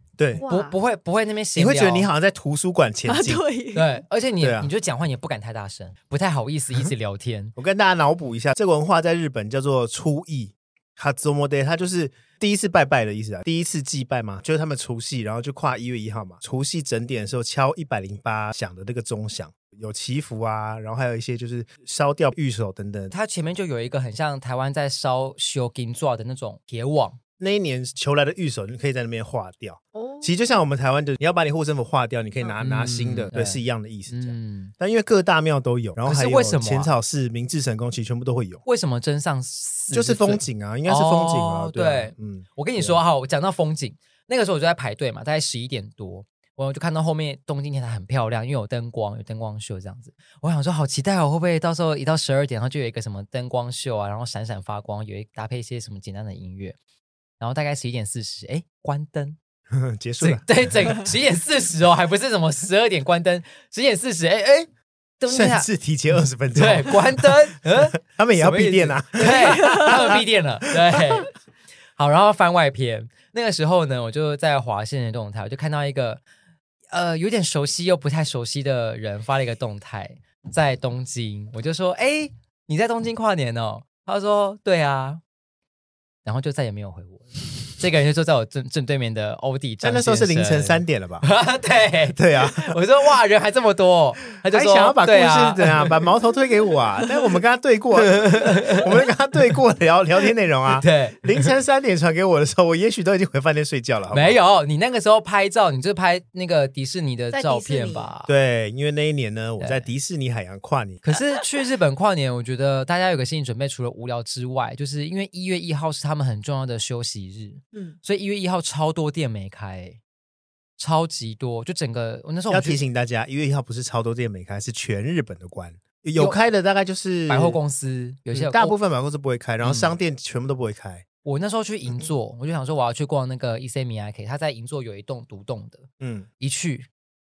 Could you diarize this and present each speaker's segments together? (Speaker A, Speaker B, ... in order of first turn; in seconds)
Speaker A: 0.2-0.4, 1.5-3.4, 4.4-4.7, 7.6-23.1, 27.4-38.6, 39.9-43.0, 59.7-60.4, 65.3-67.4, 68.0-70.2, 89.8-91.3, 92.1-92.8, 94.5-104.4, 108.3-111.0, 122.5-127.6, 128.3-131.0, 136.0-136.3
Speaker B: 0.3-0.7, 3.1-3.9, 29.9-30.4, 69.3-69.9, 107.3-108.1
Speaker C: 0.4-2.1, 3.7-7.5, 23.1-27.2, 32.6-34.7, 36.0-36.9, 38.6-56.8, 57.4-59.4, 60.2-64.7, 65.2-65.7, 66.5-71.3, 72.0-76.2, 76.9-85.2, 86.2-96.0, 98.0-99.0, 100.7-101.5, 104.1-108.3, 109.6-109.9, 111.0-120.0, 120.8-122.8, 127.3-128.8, 129.6-129.9, 131.2-135.9, 136.4-136.9